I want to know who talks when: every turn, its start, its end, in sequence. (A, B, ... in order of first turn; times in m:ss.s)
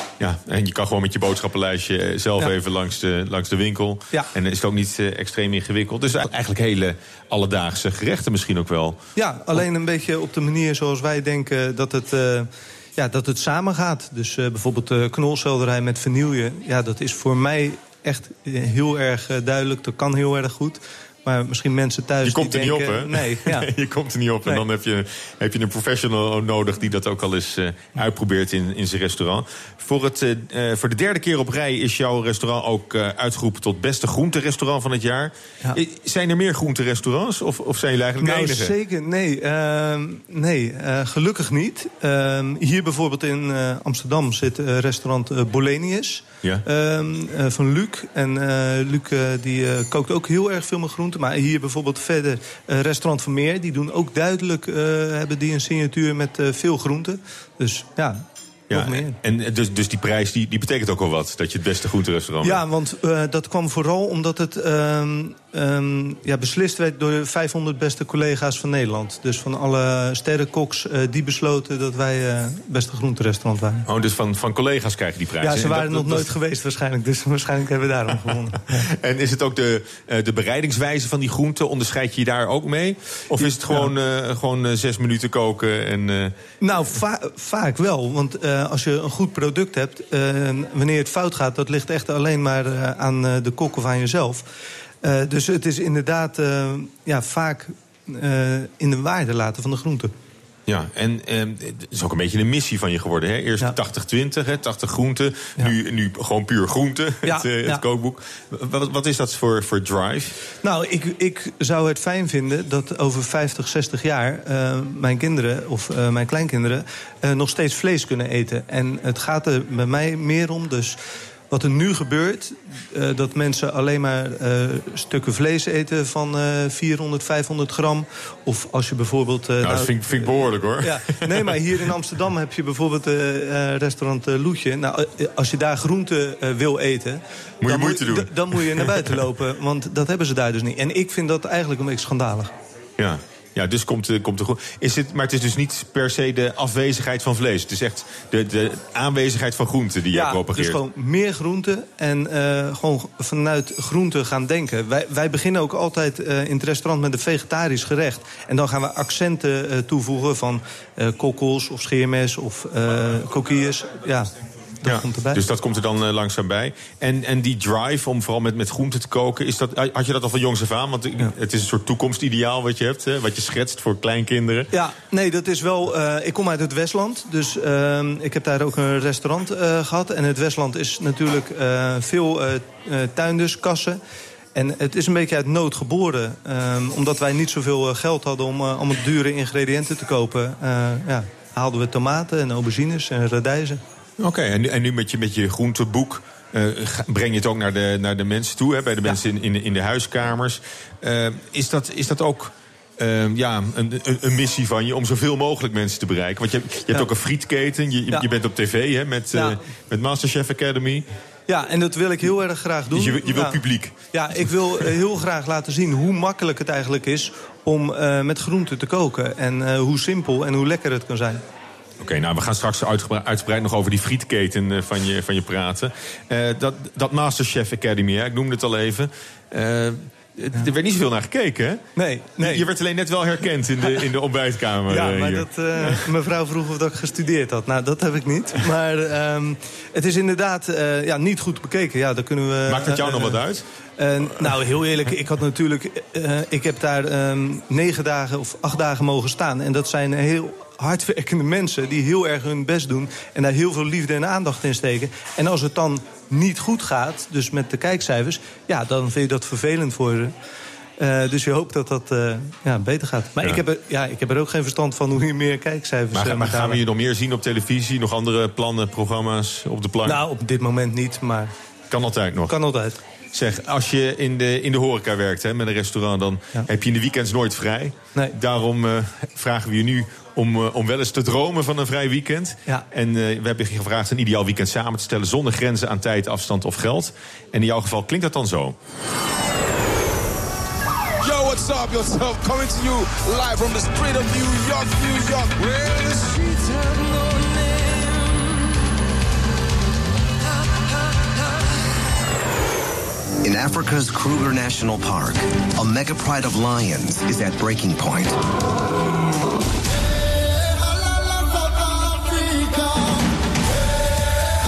0:00.2-0:09.0 A
0:09.2-0:23.7 B
0:22.2-0:38.7 A
0:38.2-0:59.2 B
0:58.7-1:02.6 A
1:02.4-1:13.8 B
1:13.9-1:16.3 A
1:15.4-1:18.9 B
1:18.9-1:26.3 A
1:23.4-1:23.9 B
1:26.6-1:34.4 B
1:35.0-1:40.1 B
1:40.7-1:50.4 A
1:47.2-1:47.8 B
1:50.6-2:01.0 B
2:01.5-2:22.5 B
2:09.6-2:11.6 A
2:17.6-2:19.2 A
2:23.0-2:30.8 A
2:30.1-2:44.3 B
2:44.8-2:45.4 B
2:44.8-2:54.7 A
2:54.7-3:04.0 B
3:04.6-3:13.8 B
3:14.2-3:31.0 A
3:31.5-3:33.6 B
3:32.9-3:34.9 A
3:34.1-3:41.4 B
3:42.0-3:51.8 A
3:52.0-3:52.7 B
3:52.4-3:56.1 A
3:54.9-4:03.4 B
4:02.7-4:03.6 A
4:04.0-4:20.3 B
4:21.0-4:26.8 B
4:26.1-4:30.2 A
4:30.0-4:31.5 B
4:31.9-4:32.5 A
4:32.5-4:33.0 B
4:33.3-4:48.8 A
4:51.2-4:58.6 C
5:00.6-5:01.6 C
5:03.4-5:08.4 D